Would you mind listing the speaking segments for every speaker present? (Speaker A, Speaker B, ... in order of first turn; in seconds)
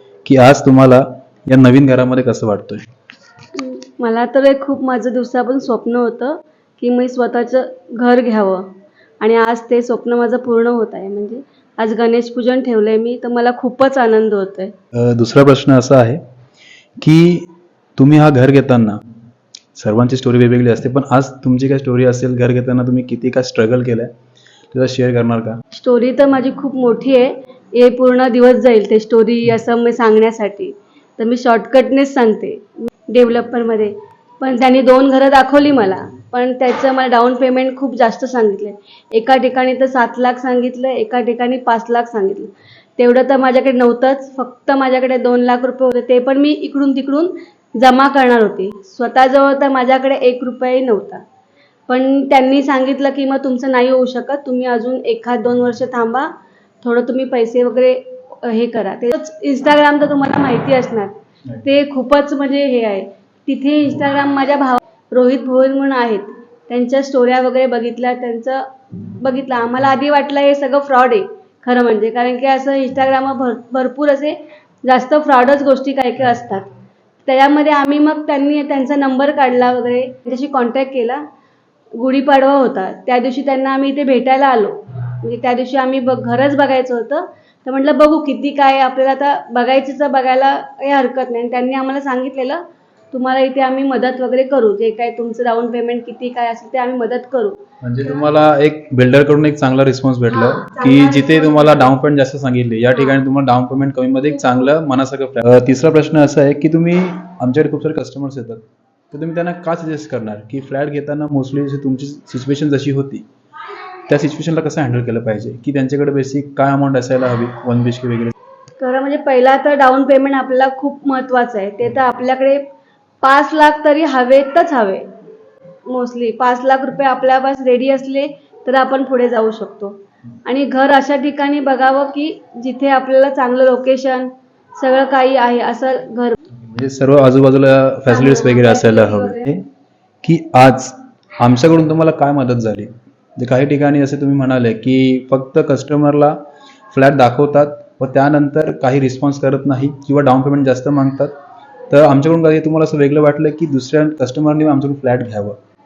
Speaker A: 0.2-2.8, 14.9-16.2, 17.0-19.0, 19.8-24.1, 24.7-25.6, 97.8-113.2, 114.1-118.3, 136.5-139.7, 140.2-146.4, 146.9-151.3, 151.9-155.6
Speaker B: 3.5-14.7, 25.7-51.2, 51.9-56.3, 56.8-76.7, 77.2-81.2, 82.0-97.6, 100.3-102.0, 102.9-103.2, 118.8-122.6, 123.2-125.1, 125.9-136.4, 138.1-139.5